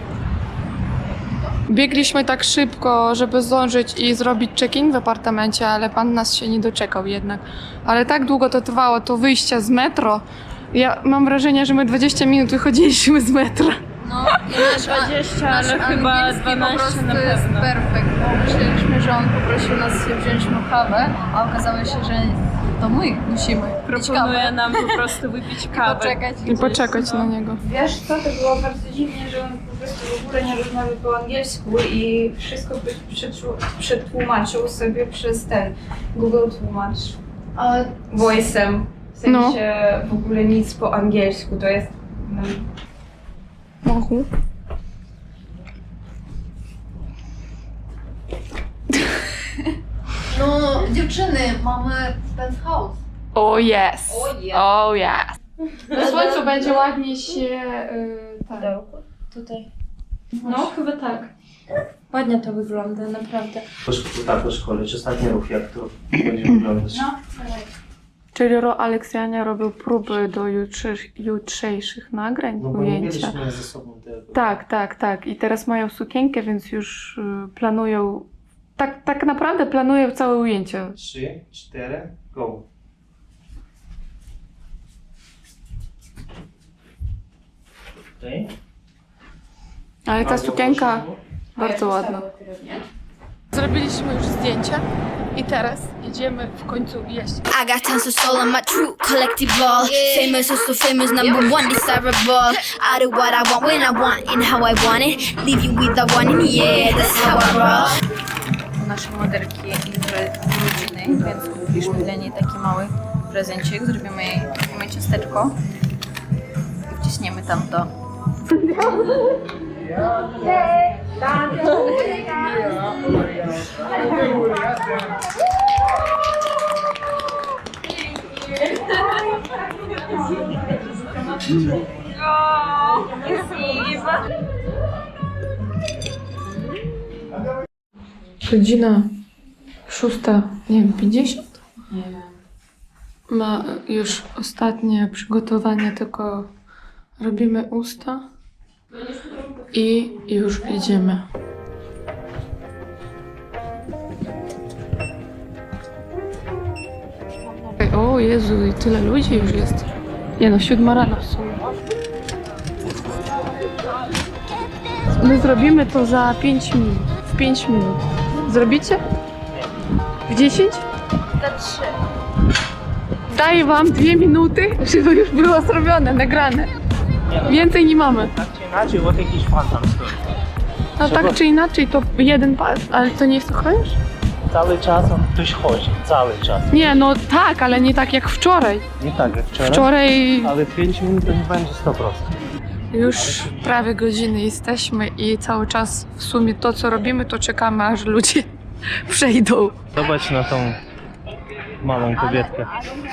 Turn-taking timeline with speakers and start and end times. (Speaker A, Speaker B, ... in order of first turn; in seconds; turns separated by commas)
Speaker A: 1.7-13.8, Speaker B: 14.0-27.2, Speaker C: 14.5-17.7, Speaker C: 23.9-26.2, Speaker A: 26.4-27.6, Speaker C: 26.9-42.7, Speaker A: 39.2-39.6, Speaker A: 43.8-44.3, Speaker B: 50.3-53.0, Speaker A: 53.3-55.3, Speaker B: 54.1-54.6, Speaker C: 55.9-56.9, Speaker A: 55.9-58.7, Speaker C: 58.6-59.7, Speaker C: 60.4-61.3, Speaker A: 60.4-60.7, Speaker C: 62.1-63.6, Speaker D: 63.8-67.0, Speaker C: 66.9-67.6, Speaker A: 68.3-73.4, Speaker D: 72.6-74.5, Speaker A: 74.3-81.0, Speaker D: 81.0-82.6, Speaker D: 88.2-88.5, Speaker A: 90.0-92.2, Speaker D: 90.2-91.2, Speaker C: 91.6-92.8, Speaker A: 93.5-94.8, Speaker A: 95.3-97.4, Speaker E: 97.5-107.9, Speaker B: 101.2-101.6, Speaker B: 108.8-115.5, Speaker B: 116.9-117.9, Speaker C: 118.6-119.1, Speaker C: 121.4-122.1, Speaker B: 121.8-122.3, Speaker B: 132.5-133.8, Speaker A: 138.4-139.1, Speaker A: 139.9-141.6, Speaker A: 143.3-146.5, Speaker A: 147.2-148.2, Speaker A: 149.7-151.2, Speaker A: 157.8-159.8, Speaker A: 160.4-161.6, Speaker A: 165.2-169.0, Speaker A: 170.3-170.8, Speaker B: 171.4-171.9, Speaker A: 173.3-176.7, Speaker D: 177.3-177.7, Speaker A: 177.4-178.3, Speaker D: 178.2-180.2, Speaker A: 181.0-184.0, Speaker D: 181.0-181.4, Speaker D: 184.5-186.7, Speaker A: 186.7-188.8, Speaker D: 189.0-192.3, Speaker A: 189.7-190.5, Speaker A: 192.9-198.5, Speaker D: 193.1-193.8, Speaker A: 199.1-199.8, Speaker D: 199.9-200.8, Speaker D: 201.8-202.7